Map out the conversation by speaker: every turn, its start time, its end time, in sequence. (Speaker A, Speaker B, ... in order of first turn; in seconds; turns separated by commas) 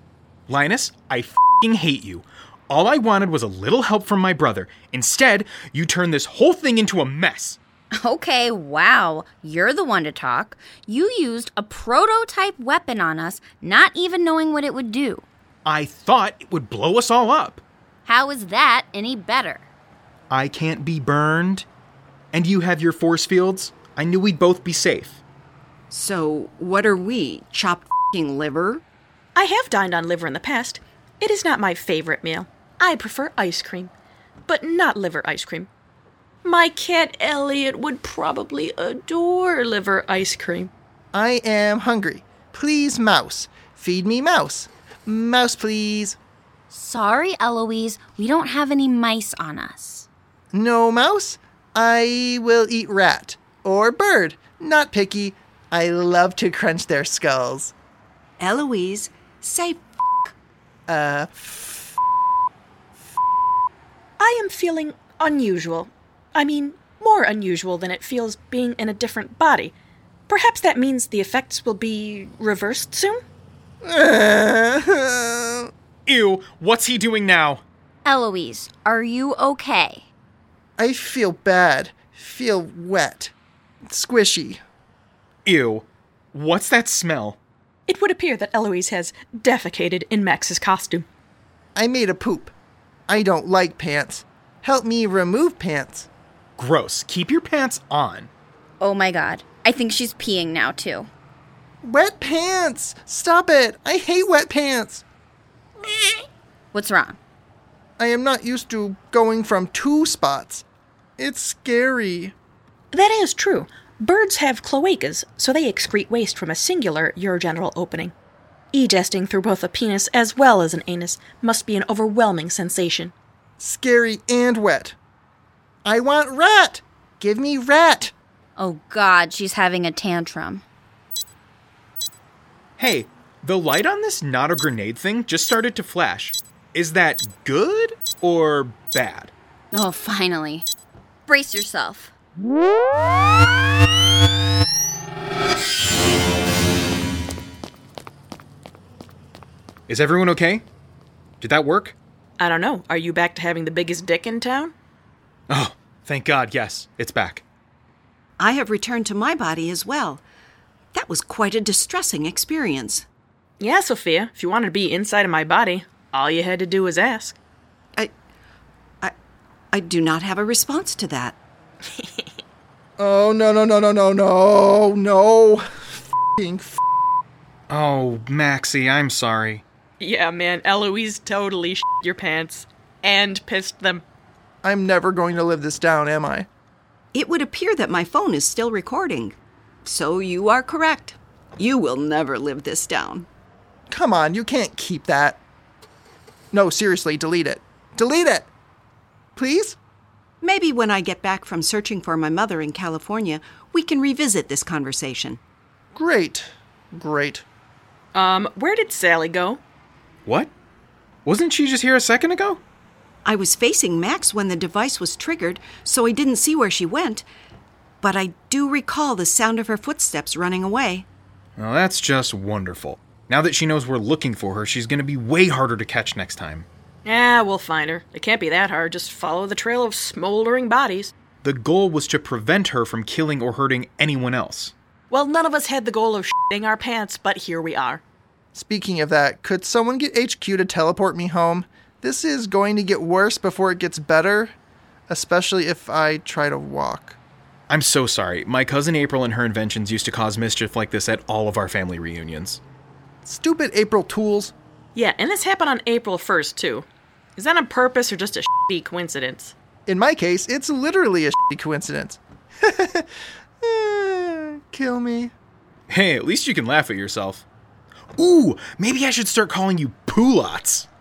Speaker A: 0.5-7.6, Speaker B: 8.0-15.2, Speaker A: 15.7-17.6, Speaker B: 18.1-19.6, Speaker A: 20.3-21.7, Speaker A: 22.3-25.2, Speaker C: 25.9-28.8, Speaker D: 29.4-33.9, Speaker D: 34.5-35.7, Speaker D: 36.4-40.7, Speaker E: 41.1-46.2, Speaker B: 46.7-50.1, Speaker E: 50.5-57.7, Speaker C: 58.4-60.3, Speaker E: 60.9-62.0, Speaker D: 64.2-69.7, Speaker D: 70.3-73.2, Speaker E: 73.8-75.7, Speaker A: 76.1-77.6, Speaker B: 78.0-80.0, Speaker E: 80.8-83.3, Speaker E: 83.9-84.6, Speaker A: 85.5-87.4, Speaker D: 87.9-91.1, Speaker E: 91.8-92.5, Speaker E: 93.1-96.1, Speaker A: 96.6-98.3, Speaker B: 98.8-101.1, Speaker E: 101.8-105.0, Speaker B: 106.7-107.2, Speaker E: 108.0-110.7, Speaker E: 111.2-112.3, Speaker D: 112.9-118.1, Speaker D: 118.7-123.1, Speaker E: 123.6-125.0, Speaker E: 125.8-128.1, Speaker B: 128.6-130.6, Speaker A: 132.8-139.3, Speaker B: 139.7-140.7, Speaker B: 141.3-142.1, Speaker A: 149.9-150.7, Speaker A: 151.4-152.0, Speaker D: 152.4-154.7, Speaker A: 155.5-157.4, Speaker C: 158.4-160.2, Speaker C: 160.9-163.1, Speaker D: 163.6-167.4, Speaker C: 169.7-171.4, Speaker D: 171.9-172.4, Speaker E: 173.0-176.8, Speaker A: 177.7-179.6, Speaker D: 180.0-184.0, Speaker E: 184.6-186.5, Speaker C: 187.1-193.3, Speaker E: 193.9-195.4, Speaker E: 196.5-198.5, Speaker E: 199.4-199.8, Speaker C: 200.4-205.4, Speaker E: 205.9-207.4, Speaker D: 208.1-209.6, Speaker A: 210.3-210.5, Speaker A: 211.2-212.6, Speaker C: 213.2-217.2, Speaker C: 218.0-221.1, Speaker A: 221.6-226.7, Speaker D: 227.1-231.1, Speaker A: 231.4-234.7, Speaker D: 235.1-238.0, Speaker E: 238.5-244.6, Speaker E: 245.1-247.2, Speaker A: 247.7-252.6, Speaker E: 253.2-254.5, Speaker D: 254.9-256.9, Speaker D: 257.4-259.5, Speaker E: 259.9-263.1, Speaker E: 263.6-265.3, Speaker A: 265.9-267.4, Speaker A: 268.2-270.9